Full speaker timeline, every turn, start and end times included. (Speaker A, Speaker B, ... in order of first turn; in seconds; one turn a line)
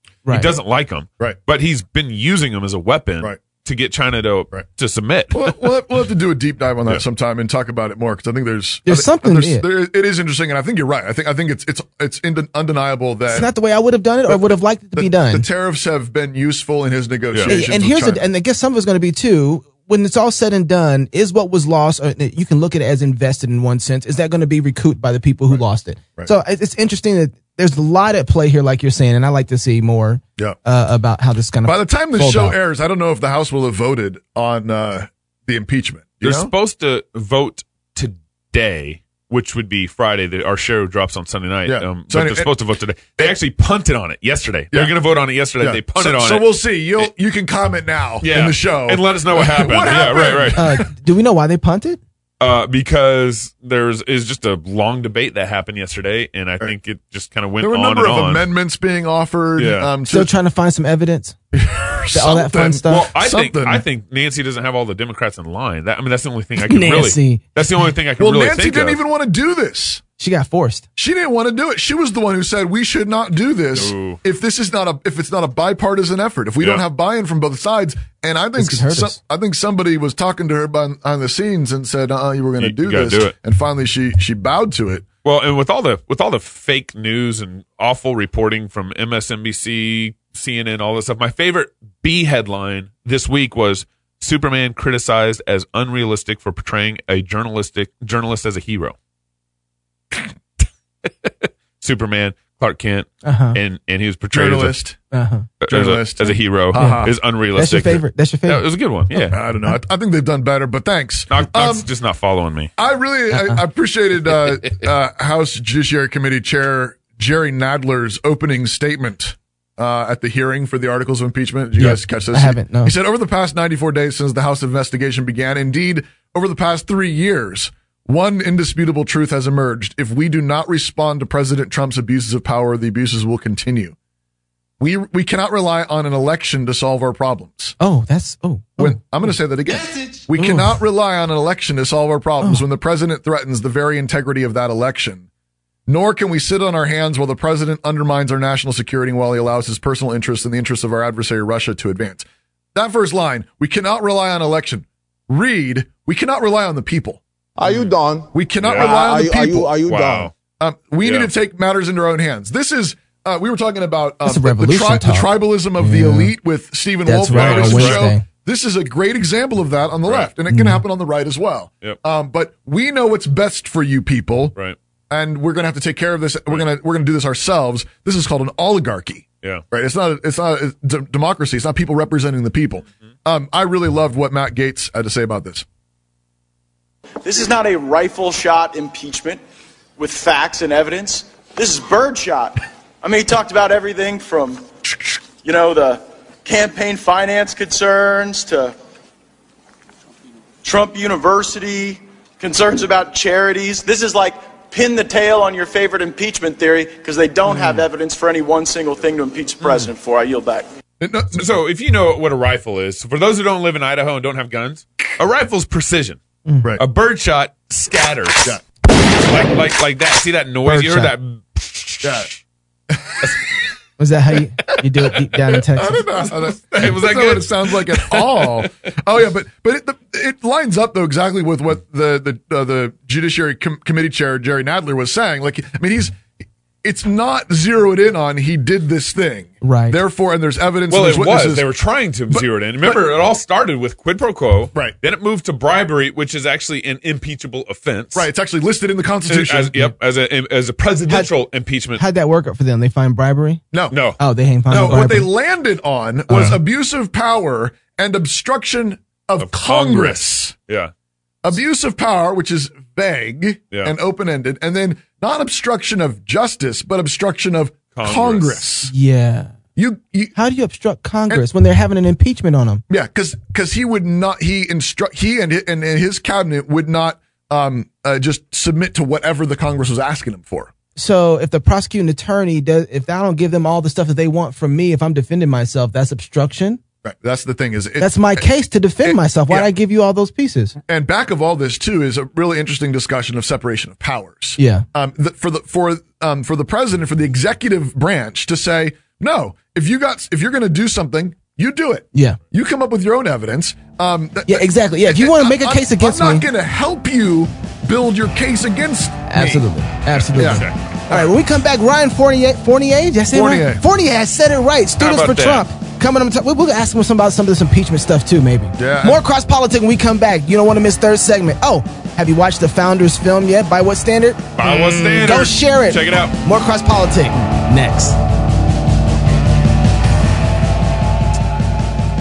Speaker A: 0.2-0.5
Speaker B: 0.3-5.6
Speaker C: 5.3-13.5
Speaker A: 8.9-9.6
Speaker A: 13.3-15.5
Speaker C: 14.3-18.2
Speaker A: 17.5-32.6
Speaker C: 31.6-36.5
Speaker B: 36.2-47.1
Speaker C: 41.7-42.5
Speaker C: 45.6-50.7
Speaker B: 48.2-50.6
Speaker A: 50.6-52.0
Speaker B: 52.4-58.5
Speaker C: 57.6-60.3
Speaker B: 59.6-59.9
Speaker A: 60.1-61.4
Speaker C: 61.5-63.9
Speaker A: 62.1-63.1
Speaker B: 62.9-69.0
Speaker A: 66.6-67.5
Speaker C: 68.2-70.0
Speaker A: 70.2-70.9
Speaker C: 71.0-85.0
Speaker B: 73.8-74.2
Speaker A: 78.6-79.2
Speaker B: 82.6-83.3
Speaker B: 85.2-99.0
Speaker B: 100.6-104.8
Speaker A: 103.2-103.6
Speaker C: 104.3-105.0
Speaker A: 105.1-105.5
Speaker B: 105.6-109.4
Speaker C: 105.7-107.2
Speaker A: 106.8-108.7
Speaker C: 109.3-111.9
Speaker B: 111.3-112.7
Speaker C: 112.8-133.9
Speaker A: 113.3-113.6
Speaker A: 121.8-122.9
Speaker C: 134.8-137.8
Speaker A: 137.8-139.3
Speaker C: 138.8-145.3
Speaker A: 140.4-140.8
Speaker C: 145.9-157.2
Speaker D: 157.6-160.3
Speaker B: 157.7-157.9
Speaker C: 158.3-159.8
Speaker B: 158.6-159.0
Speaker B: 159.8-160.3
Speaker C: 160.6-174.6
Speaker B: 161.0-161.3
Speaker A: 164.2-166.3
Speaker A: 167.1-168.2
Speaker B: 167.3-168.1
Speaker B: 170.1-170.3
Speaker A: 170.5-170.8
Speaker C: 175.1-185.7
Speaker E: 187.2-189.4
Speaker E: 190.0-194.7
Speaker E: 195.4-198.7
Speaker E: 200.7-210.7
Speaker A: 207.5-207.8
Speaker C: 211.0-211.5
Speaker B: 211.3-216.2
Speaker A: 216.5-216.7
Speaker B: 216.8-222.3
Speaker A: 220.7-221.1
Speaker C: 222.0-222.3
Speaker A: 224.0-226.1
Speaker C: 225.7-236.2
Speaker B: 226.6-228.7
Speaker C: 236.8-241.7
Speaker A: 239.6-240.0
Speaker B: 240.9-248.3
Speaker C: 242.3-243.0
Speaker C: 248.2-249.9
Speaker B: 249.3-252.0
Speaker A: 252.0-253.6
Speaker C: 253.7-254.0
Speaker B: 253.9-254.2
Speaker A: 254.2-255.3
Speaker C: 254.7-260.5
Speaker A: 256.3-256.6
Speaker B: 259.4-260.9
Speaker C: 261.4-268.9
Speaker B: 267.9-268.6
Speaker A: 268.9-269.5
Speaker C: 269.8-270.3
Speaker A: 270.4-272.8
Speaker C: 272.9-280.7
Speaker A: 281.0-286.8
Speaker C: 287.0-288.5
Speaker A: 288.0-290.8
Speaker C: 289.0-289.7
Speaker C: 290.9-309.7
Speaker A: 294.6-294.9
Speaker A: 302.1-302.4
Speaker A: 304.5-306.4
Speaker A: 309.3-328.2
Speaker B: 310.1-310.8
Speaker C: 310.3-311.3
Speaker C: 313.3-313.8
Speaker B: 315.0-315.6
Speaker C: 318.8-319.2
Speaker B: 324.6-326.4